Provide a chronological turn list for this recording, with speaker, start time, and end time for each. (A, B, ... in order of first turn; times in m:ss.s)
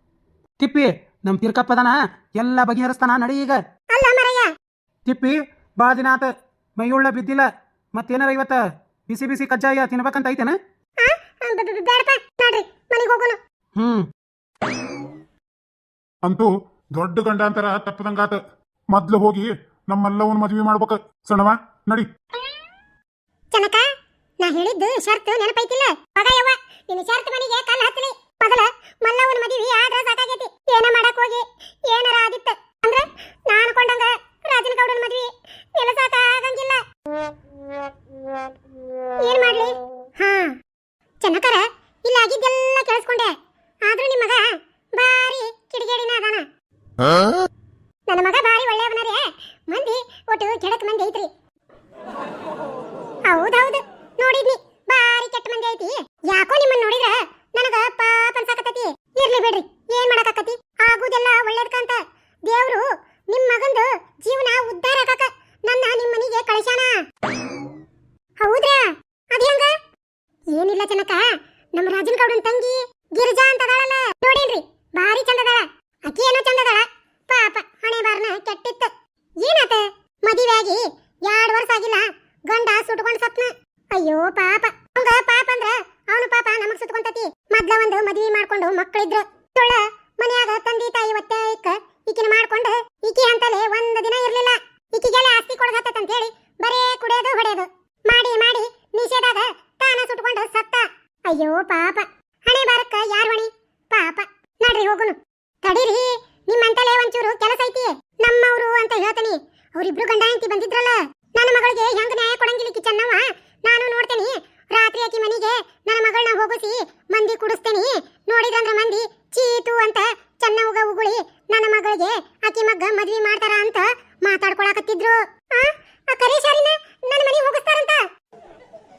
0:00.6-0:03.6 A
0:03.9-0:04.5 B
0:05.1-0:10.6 A
0:11.0-0:13.4 B
0:13.8-0:14.1 A
0:16.2-0:18.4 C
0:18.9-0:22.1 C
0:23.5-0:23.8 B
0:24.4-0:36.8 B
0:39.2-0:40.6 B
0:41.2-0:46.5 B
0:48.1-0:51.3 B
0:53.3-1:07.0 B
1:08.4-1:09.7 B
1:10.5-1:18.9 B
1:19.4-2:08.0 B